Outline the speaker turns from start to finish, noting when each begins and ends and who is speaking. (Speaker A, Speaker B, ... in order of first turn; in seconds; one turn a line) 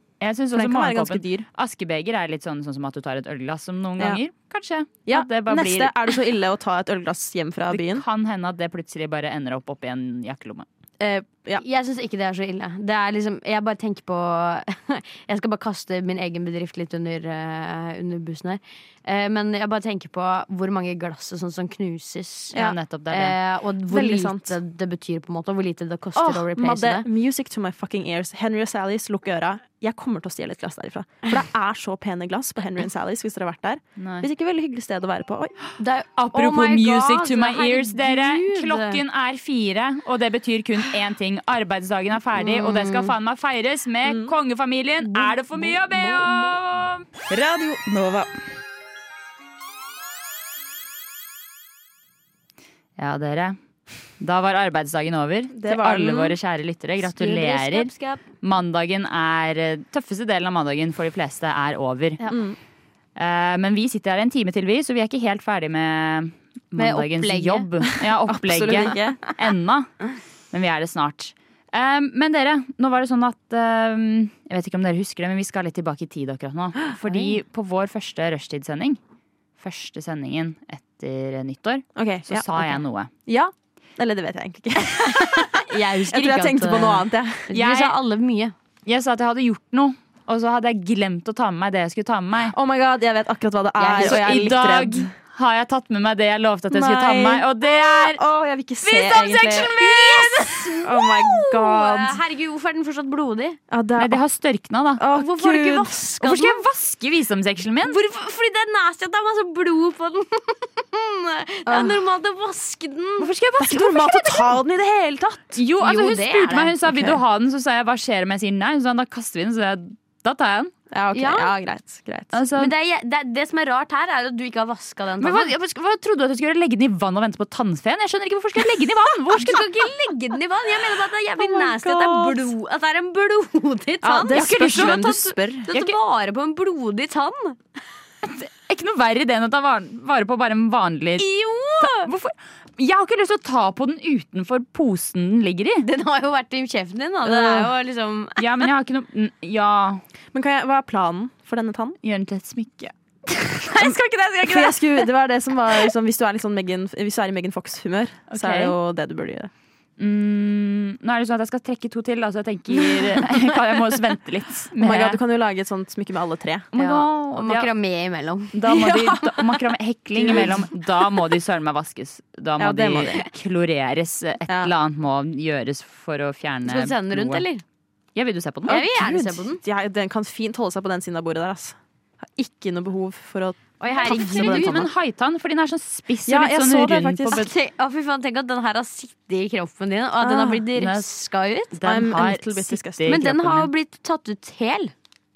Speaker A: 0.2-5.9
Speaker B: 0.5-1.5
Speaker B: 5.1-8.0
Speaker A: 7.7-10.7
Speaker B: 11.0-11.6
Speaker C: 11.6-22.6
Speaker A: 22.5-23.4
Speaker C: 23.1-27.1
Speaker B: 23.9-24.6
Speaker B: 26.1-35.5
Speaker A: 34.0-34.3
Speaker C: 35.8-39.0
Speaker A: 36.2-47.0
Speaker C: 42.4-43.1
Speaker B: 44.0-44.3
Speaker C: 45.1-46.5
Speaker B: 47.3-48.3
Speaker A: 53.0-53.6
Speaker A: 54.2-57.9
Speaker B: 55.5-56.4
Speaker C: 57.1-58.2
Speaker A: 58.4-62.2
Speaker B: 62.3-62.6
Speaker A: 63.1-79.0
Speaker C: 66.8-67.7
Speaker B: 68.3-69.2
Speaker C: 77.1-77.3
Speaker A: 79.6-83.1
Speaker B: 82.0-87.5
Speaker C: 85.2-88.5
Speaker A: 87.5-88.0
Speaker A: 88.8-92.5
Speaker B: 92.5-95.1
Speaker C: 93.8-94.4
Speaker A: 94.0-98.2
Speaker B: 96.7-102.2
Speaker A: 98.8-100.5
Speaker C: 99.6-103.6
Speaker B: 103.7-104.2
Speaker A: 104.0-105.1
Speaker B: 105.0-105.9
Speaker C: 105.1-106.6
Speaker A: 106.2-108.0
Speaker C: 107.8-113.3
Speaker B: 111.7-112.0
Speaker A: 113.2-114.5
Speaker B: 113.6-115.6
Speaker A: 115.5-120.7
Speaker C: 115.8-116.8
Speaker B: 116.9-117.2
Speaker B: 120.9-122.4
Speaker C: 121.1-121.5
Speaker A: 122.3-122.7
Speaker C: 122.5-125.5
Speaker A: 125.2-129.9
Speaker C: 129.3-137.6
Speaker B: 131.4-132.5
Speaker B: 134.0-135.7
Speaker A: 134.3-135.9
Speaker A: 138.2-141.2
Speaker C: 141.2-142.1
Speaker A: 141.8-145.8
Speaker C: 145.8-148.4
Speaker B: 147.2-147.7
Speaker A: 148.4-150.0
Speaker B: 150.3-152.0
Speaker A: 152.0-154.8
Speaker B: 154.4-159.5
Speaker A: 158.3-158.8
Speaker A: 160.0-165.2
Speaker B: 164.8-166.7
Speaker A: 166.7-167.7
Speaker C: 166.8-169.1
Speaker A: 168.5-177.4
Speaker B: 170.2-170.7
Speaker B: 172.6-173.2
Speaker C: 176.6-177.6
Speaker A: 178.1-178.9
Speaker C: 178.7-179.6
Speaker B: 178.7-181.8
Speaker B: 182.3-184.9
Speaker C: 183.8-184.9
Speaker A: 184.0-187.5
Speaker B: 186.3-187.5
Speaker C: 187.3-191.8
Speaker B: 190.2-190.6
Speaker A: 190.7-191.1
Speaker A: 191.7-193.7
Speaker B: 191.8-193.2
Speaker C: 193.1-194.9